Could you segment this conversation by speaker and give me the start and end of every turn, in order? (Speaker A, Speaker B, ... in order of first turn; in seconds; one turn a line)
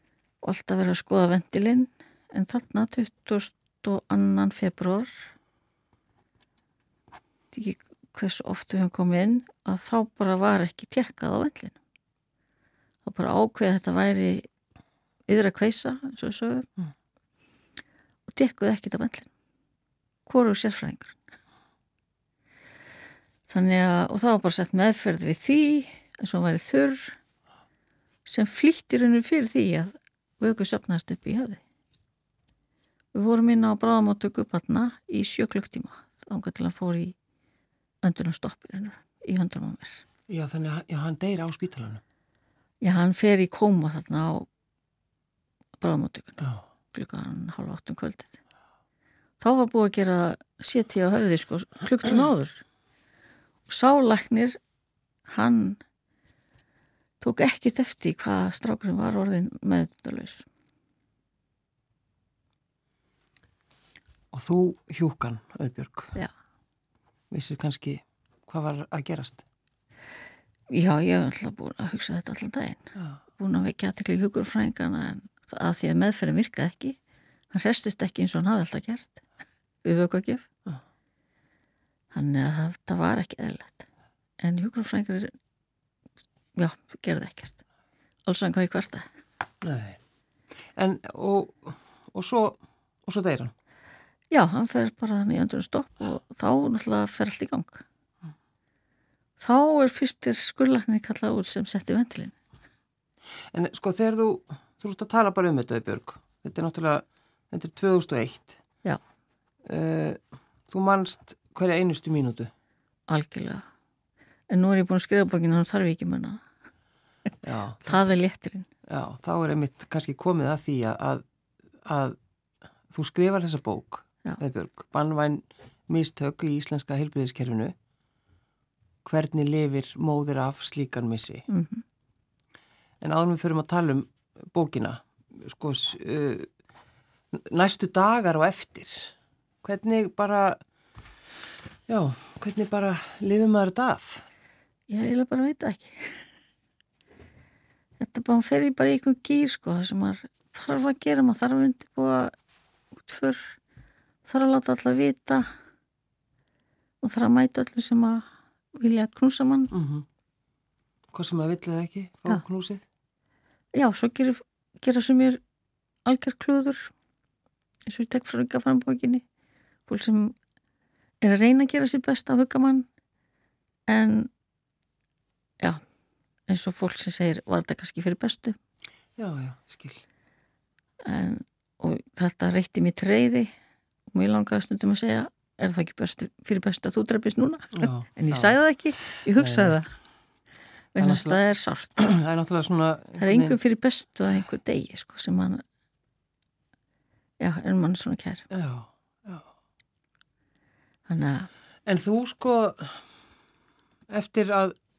Speaker A: 0.4-5.1
Speaker A: 7.5-11.8
Speaker A: 13.0-14.5
Speaker A: 15.3-16.7
Speaker A: 18.3-19.3
Speaker A: 20.2-21.2
Speaker A: 23.5-27.2
Speaker A: 28.2-31.6
Speaker A: 33.1-37.1
Speaker A: 38.0-40.0
Speaker B: 40.3-42.0
Speaker A: 42.8-44.5
Speaker A: 45.8-48.3
Speaker A: 49.4-52.6
Speaker A: 53.7-54.6
Speaker A: 55.3-55.8
Speaker A: 57.2-60.5
Speaker B: 64.3-66.1
Speaker B: 67.3-69.4
Speaker A: 70.7-72.8
Speaker A: 73.4-77.0
Speaker A: 77.5-79.2
Speaker A: 79.8-80.5
Speaker A: 82.1-83.8
Speaker A: 84.4-85.3
Speaker A: 86.5-87.6
Speaker A: 88.2-89.0
Speaker B: 89.6-90.0
Speaker B: 90.8-93.5
Speaker A: 94.3-97.8
Speaker A: 99.4-102.3
Speaker B: 103.5-108.6
Speaker B: 109.6-112.5
Speaker A: 113.1-113.6
Speaker A: 114.5-116.4
Speaker B: 117.4-118.0
Speaker A: 117.8-118.7
Speaker B: 118.9-121.2
Speaker B: 121.8-122.2
Speaker B: 122.9-127.7
Speaker B: 129.0-131.5
Speaker A: 131.5-131.8
Speaker B: 133.0-136.5
Speaker B: 137.3-140.6
Speaker B: 141.9-144.2
Speaker A: 144.9-146.2
Speaker A: 148.0-152.3
Speaker A: 153.0-153.6
Speaker A: 154.2-155.5
Speaker A: 157.0-158.2
Speaker A: 158.8-159.7
Speaker B: 159.7-160.1
Speaker B: 161.1-162.8
Speaker A: 163.7-165.4
Speaker A: 166.0-166.9
Speaker A: 167.9-169.2
Speaker A: 169.9-170.3
Speaker A: 171.2-172.9
Speaker A: 173.9-174.3
Speaker A: 176.5-178.6
Speaker B: 179.2-180.0
Speaker A: 181.0-183.5
Speaker A: 184.1-189.9
Speaker B: 187.7-188.6
Speaker B: 189.2-189.8
Speaker A: 190.9-192.2
Speaker B: 191.0-191.4
Speaker B: 192.0-193.6
Speaker A: 193.2-195.6
Speaker A: 197.4-198.5
Speaker B: 198.5-199.5
Speaker A: 201.1-201.5
Speaker B: 201.8-203.1
Speaker B: 204.1-204.8